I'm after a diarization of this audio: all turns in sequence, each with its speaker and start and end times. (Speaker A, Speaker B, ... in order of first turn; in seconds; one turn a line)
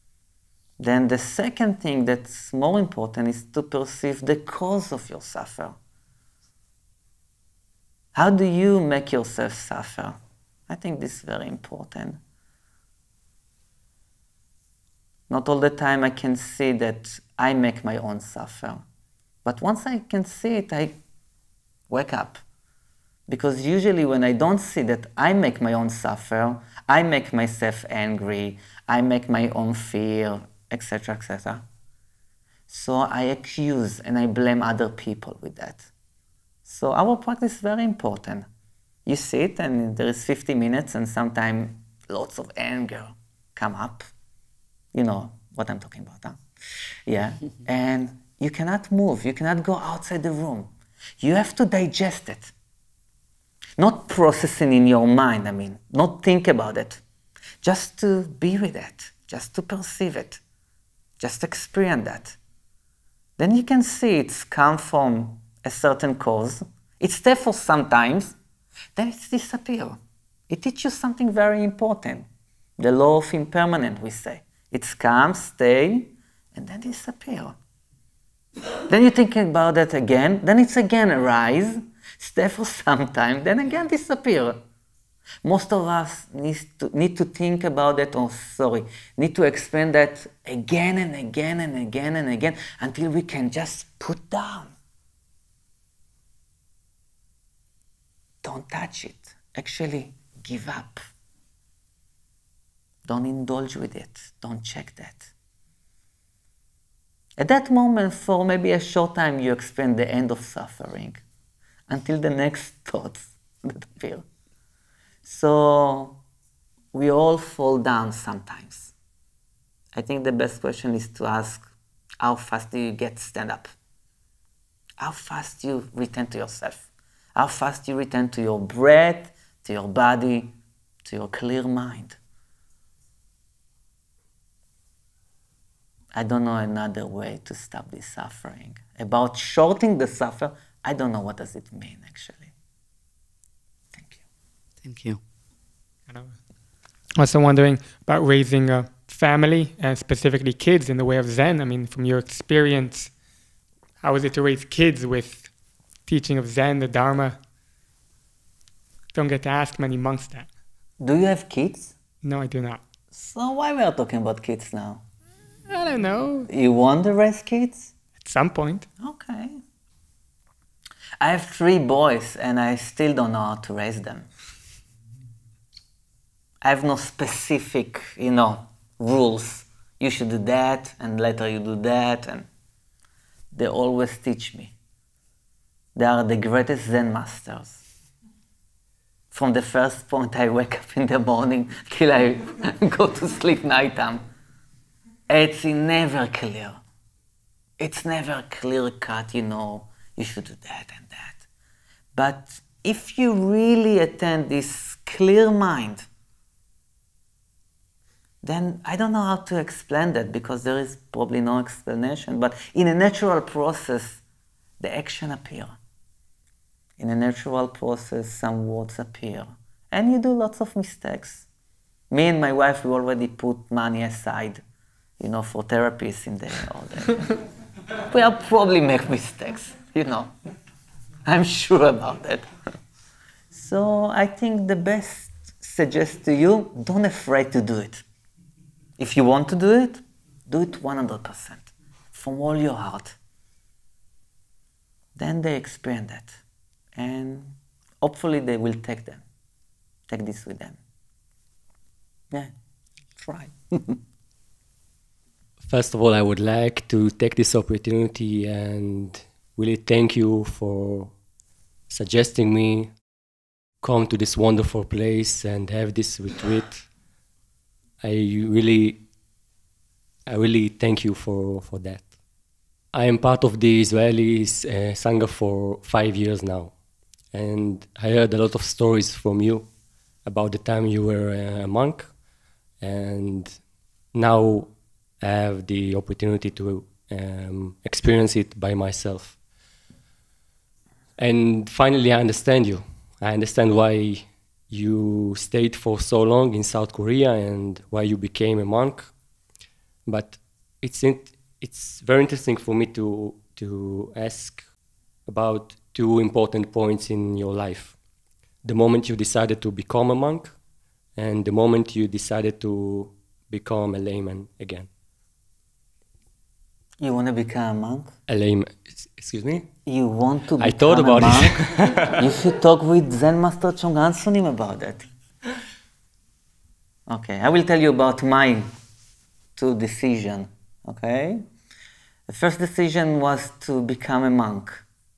Speaker A: 0.8-5.8
Speaker A: 8.1-10.2
Speaker A: 10.7-12.2
Speaker A: 15.3-18.8
Speaker A: 19.4-21.0
Speaker A: 21.9-22.4
Speaker A: 23.3-31.6
Speaker A: 32.7-35.9
Speaker A: 36.6-38.5
Speaker A: 39.1-44.1
Speaker A: 44.9-46.4
Speaker A: 47.1-52.5
Speaker A: 53.8-57.0
Speaker A: 57.6-60.4
Speaker A: 61.2-62.4
Speaker A: 63.4-68.3
Speaker A: 69.0-70.0
Speaker A: 70.5-72.3
Speaker A: 72.8-77.5
Speaker A: 78.9-84.6
Speaker A: 85.4-94.7
Speaker A: 98.4-101.0
Speaker A: 103.0-105.3
Speaker A: 107.4-111.2
Speaker A: 111.9-114.2
Speaker A: 115.2-116.2
Speaker A: 116.9-118.9
Speaker A: 119.9-121.7
Speaker A: 122.2-123.7
Speaker A: 125.0-130.5
Speaker A: 131.1-132.2
Speaker A: 136.1-142.5
Speaker A: 143.9-144.2
Speaker B: 146.1-146.4
Speaker B: 147.2-153.2
Speaker B: 154.0-157.4
Speaker B: 159.1-160.5
Speaker A: 161.0-161.9
Speaker B: 162.2-162.8
Speaker A: 163.1-165.0
Speaker B: 165.7-166.5
Speaker A: 166.5-167.9
Speaker B: 168.2-168.9
Speaker A: 169.0-169.6
Speaker A: 171.2-174.3
Speaker A: 176.6-182.5
Speaker A: 183.5-184.7
Speaker A: 185.9-187.8
Speaker A: 189.3-194.2
Speaker A: 195.3-196.8
Speaker A: 197.8-201.5
Speaker A: 202.1-206.1
Speaker A: 208.4-214.2
Speaker A: 214.8-215.8
Speaker A: 217.0-221.5
Speaker A: 222.1-224.6
Speaker A: 225.2-227.4
Speaker A: 228.0-230.3
Speaker A: 231.3-232.5
Speaker A: 233.5-238.1
Speaker A: 239.0-243.2
Speaker A: 245.2-246.4
Speaker A: 246.9-249.2
Speaker A: 250.1-250.8
Speaker A: 253.2-254.0
Speaker C: 255.6-261.2
Speaker C: 261.9-263.0
Speaker C: 263.8-266.9
Speaker C: 268.0-269.0
Speaker C: 270.3-272.1
Speaker C: 272.9-282.2
Speaker C: 282.8-289.4
Speaker C: 291.2-299.2
Speaker C: 300.1-304.7
Speaker C: 305.2-308.0
Speaker C: 308.6-310.6
Speaker C: 311.1-314.9
Speaker A: 317.0-318.1
Speaker C: 318.3-319.7
Speaker A: 319.9-325.1
Speaker C: 320.6-322.2
Speaker A: 327.1-328.7
Speaker A: 329.6-331.4
Speaker A: 332.3-334.9